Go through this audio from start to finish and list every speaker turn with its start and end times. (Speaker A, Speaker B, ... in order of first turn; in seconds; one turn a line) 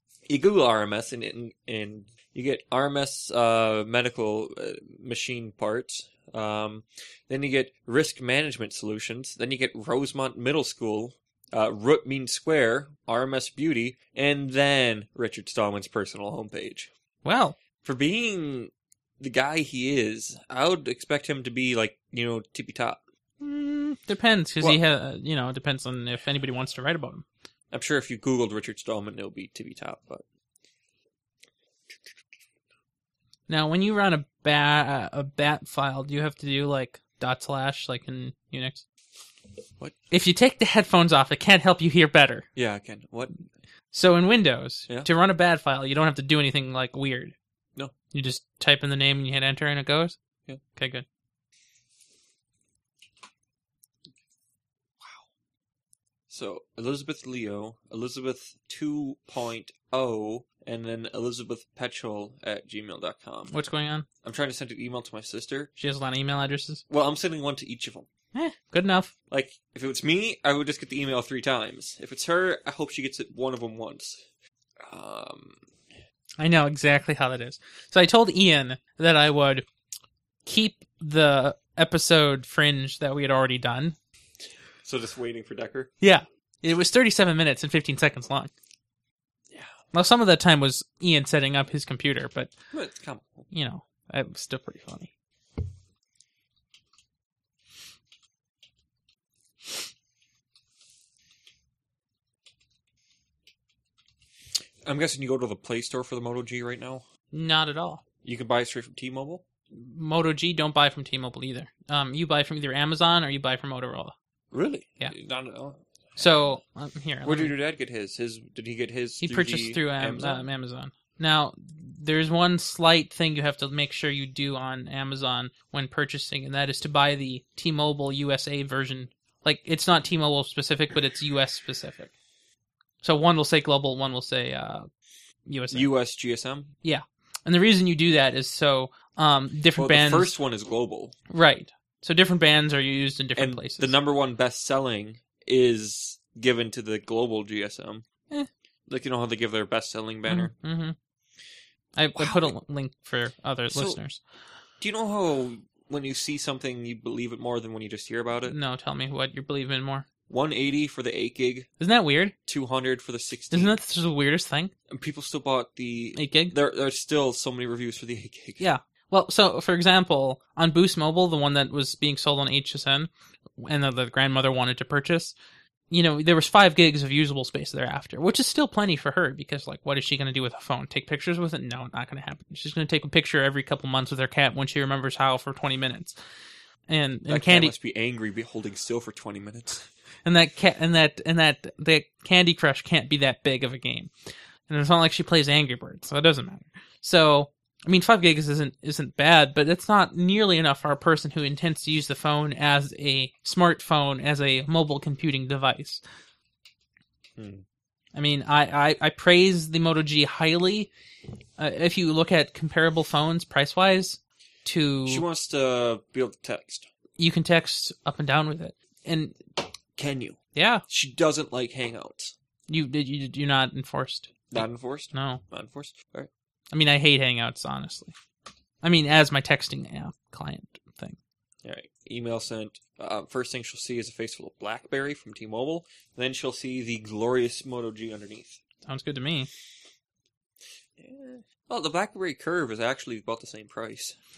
Speaker A: 0.3-16.9
Speaker B: 17.2-17.6
Speaker A: 17.8-23.0
Speaker B: 23.4-27.2
Speaker A: 27.7-30.2
Speaker B: 33.5-38.8
Speaker B: 40.1-42.5
Speaker A: 42.6-43.4
Speaker B: 43.9-47.3
Speaker B: 48.1-50.2
Speaker B: 50.8-51.0
Speaker A: 56.3-63.5
Speaker B: 63.5-64.1
Speaker A: 64.2-65.7
Speaker B: 65.8-66.8
Speaker A: 66.9-68.1
Speaker B: 68.3-69.1
Speaker A: 69.3-74.2
Speaker A: 74.8-75.6
Speaker B: 76.4-79.7
Speaker B: 80.5-84.0
Speaker A: 84.8-85.9
Speaker B: 86.0-88.5
Speaker B: 89.9-92.5
Speaker A: 92.7-93.5
Speaker B: 93.5-95.1
Speaker A: 104.8-107.0
Speaker B: 107.3-108.0
Speaker A: 108.2-109.4
Speaker B: 109.7-114.1
Speaker A: 114.5-116.6
Speaker B: 116.2-117.5
Speaker A: 117.2-120.5
Speaker B: 119.2-132.1
Speaker B: 133.0-134.9
Speaker B: 135.5-135.9
Speaker A: 135.7-136.7
Speaker B: 136.8-140.3
Speaker A: 139.8-141.2
Speaker B: 141.3-143.9
Speaker A: 143.4-148.1
Speaker A: 148.9-150.5
Speaker B: 150.3-151.0
Speaker B: 151.9-154.2
Speaker A: 152.2-152.5
Speaker A: 153.7-154.0
Speaker A: 154.8-158.6
Speaker B: 158.5-160.1
Speaker A: 160.3-161.7
Speaker B: 161.8-162.3
Speaker A: 162.5-163.8
Speaker B: 163.5-164.7
Speaker A: 164.9-168.6
Speaker B: 166.2-166.6
Speaker B: 168.6-175.4
Speaker B: 175.9-186.2
Speaker B: 186.9-187.7
Speaker A: 187.3-189.9
Speaker B: 190.2-194.1
Speaker B: 194.7-206.0
Speaker A: 207.4-207.6
Speaker B: 208.2-210.9
Speaker B: 211.6-215.2
Speaker A: 215.1-216.9
Speaker B: 217.2-219.4
Speaker A: 220.0-222.3
Speaker B: 220.6-220.8
Speaker B: 222.7-225.4
Speaker A: 224.5-226.3
Speaker B: 226.7-228.1
Speaker B: 228.8-231.2
Speaker A: 231.6-238.6
Speaker B: 238.9-239.5
Speaker A: 241.0-244.2